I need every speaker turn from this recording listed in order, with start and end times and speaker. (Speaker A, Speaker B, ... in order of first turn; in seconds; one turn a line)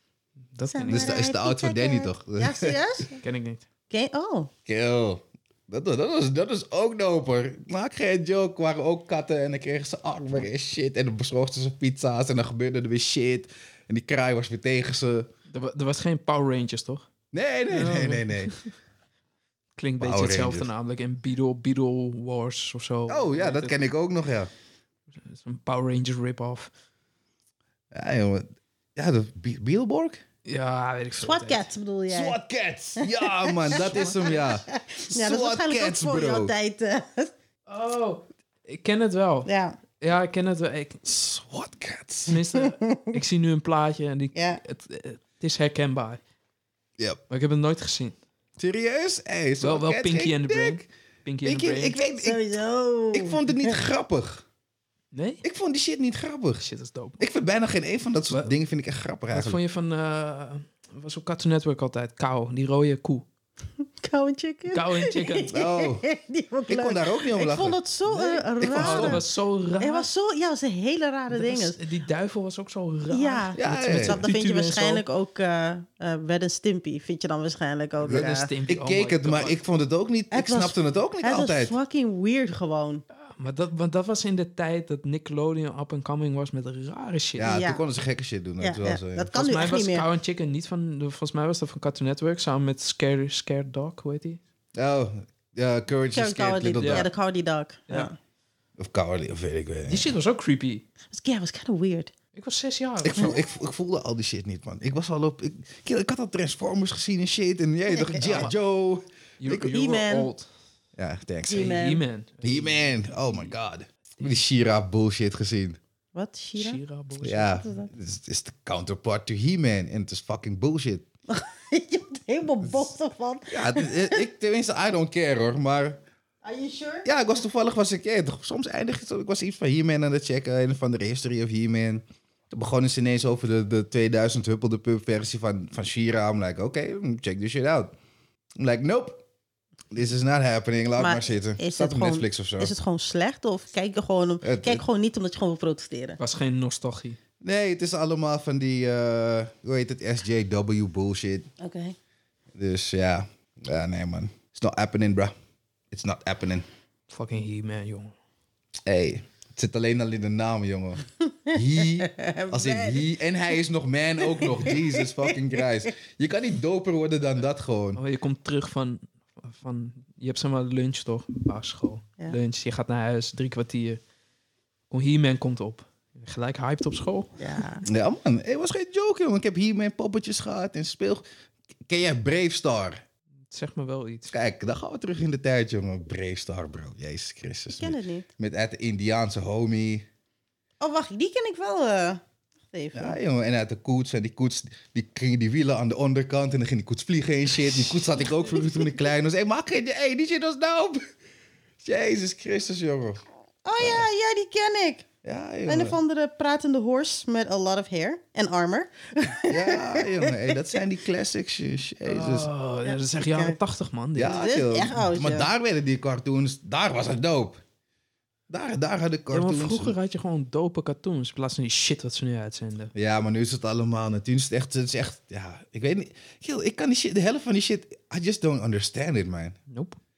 Speaker A: 0.6-1.1
Speaker B: 0.7-3.2
Speaker C: 0.9-2.8
Speaker A: 3.2-3.6
Speaker B: 3.9-4.5
Speaker C: 4.7-15.3
Speaker A: 15.5-17.1
Speaker C: 17.3-18.5
Speaker A: 17.7-18.6
Speaker A: 19.8-23.8
Speaker C: 20.0-20.7
Speaker C: 23.1-24.5
Speaker A: 25.2-26.7
Speaker C: 27.9-30.2
Speaker A: 30.4-31.7
Speaker B: 31.2-32.4
Speaker C: 32.1-36.5
Speaker B: 33.0-34.2
Speaker A: 33.7-34.4
Speaker B: 34.7-37.3
Speaker A: 37.7-39.5
Speaker B: 39.5-39.8
Speaker A: 40.0-41.0
Speaker C: 41.0-42.4
Speaker A: 42.3-46.2
Speaker B: 42.6-43.1
Speaker B: 44.3-44.6
Speaker A: 47.3-48.2
Speaker C: 48.6-50.8
Speaker A: 49.6-52.0
Speaker C: 51.4-52.4
Speaker B: 52.2-53.8
Speaker C: 53.1-54.4
Speaker A: 55.1-55.4
Speaker C: 55.4-56.7
Speaker A: 56.6-57.2
Speaker C: 57.2-59.6
Speaker A: 59.3-63.3
Speaker B: 63.9-69.2
Speaker A: 64.7-65.5
Speaker C: 65.5-66.1
Speaker C: 66.7-67.8
Speaker A: 68.1-70.1
Speaker C: 68.6-69.2
Speaker B: 69.8-71.8
Speaker A: 71.3-75.0
Speaker B: 73.1-78.5
Speaker C: 73.6-74.2
Speaker C: 78.0-81.8
Speaker A: 78.1-79.6
Speaker B: 80.3-83.0
Speaker A: 83.3-87.5
Speaker C: 87.4-89.3
Speaker B: 87.4-87.8
Speaker B: 88.6-90.1
Speaker A: 89.3-94.4
Speaker C: 94.8-97.1
Speaker B: 96.1-98.2
Speaker A: 96.8-97.1
Speaker C: 98.8-100.1
Speaker A: 99.9-100.8
Speaker B: 101.1-102.1
Speaker A: 102.3-103.4
Speaker C: 103.0-109.7
Speaker A: 108.1-108.5
Speaker A: 109.4-110.5
Speaker B: 109.6-110.3
Speaker C: 111.0-111.8
Speaker B: 111.5-112.0
Speaker A: 111.5-113.5
Speaker C: 112.4-115.8
Speaker B: 116.1-116.8
Speaker A: 116.6-117.6
Speaker C: 117.2-121.0
Speaker B: 117.6-117.9
Speaker B: 121.3-124.2
Speaker C: 123.5-126.0
Speaker B: 126.4-127.1
Speaker C: 127.0-137.9
Speaker C: 138.6-139.2
Speaker C: 139.9-142.7
Speaker B: 141.0-146.2
Speaker C: 144.4-144.8
Speaker A: 146.2-147.2
Speaker C: 147.4-151.5
Speaker B: 151.6-151.9
Speaker C: 152.6-155.3
Speaker C: 155.9-156.7
Speaker A: 157.1-158.1
Speaker C: 158.9-168.0
Speaker B: 161.5-163.1
Speaker B: 164.4-165.3
Speaker A: 168.0-174.0
Speaker A: 174.9-177.3
Speaker B: 177.4-177.8
Speaker C: 177.9-181.2
Speaker C: 181.9-183.0
Speaker A: 183.5-184.3
Speaker C: 184.3-190.1
Speaker B: 187.7-188.3
Speaker B: 190.8-193.2
Speaker C: 192.9-201.0
Speaker C: 201.8-203.2
Speaker B: 203.6-205.1
Speaker C: 203.8-204.1
Speaker C: 205.2-206.0
Speaker B: 205.7-210.6
Speaker C: 209.5-212.5
Speaker A: 212.1-214.4
Speaker B: 212.8-213.6
Speaker C: 214.2-217.6
Speaker B: 214.3-215.5
Speaker C: 218.5-220.0
Speaker A: 219.3-222.9
Speaker C: 222.9-229.6
Speaker A: 229.7-230.0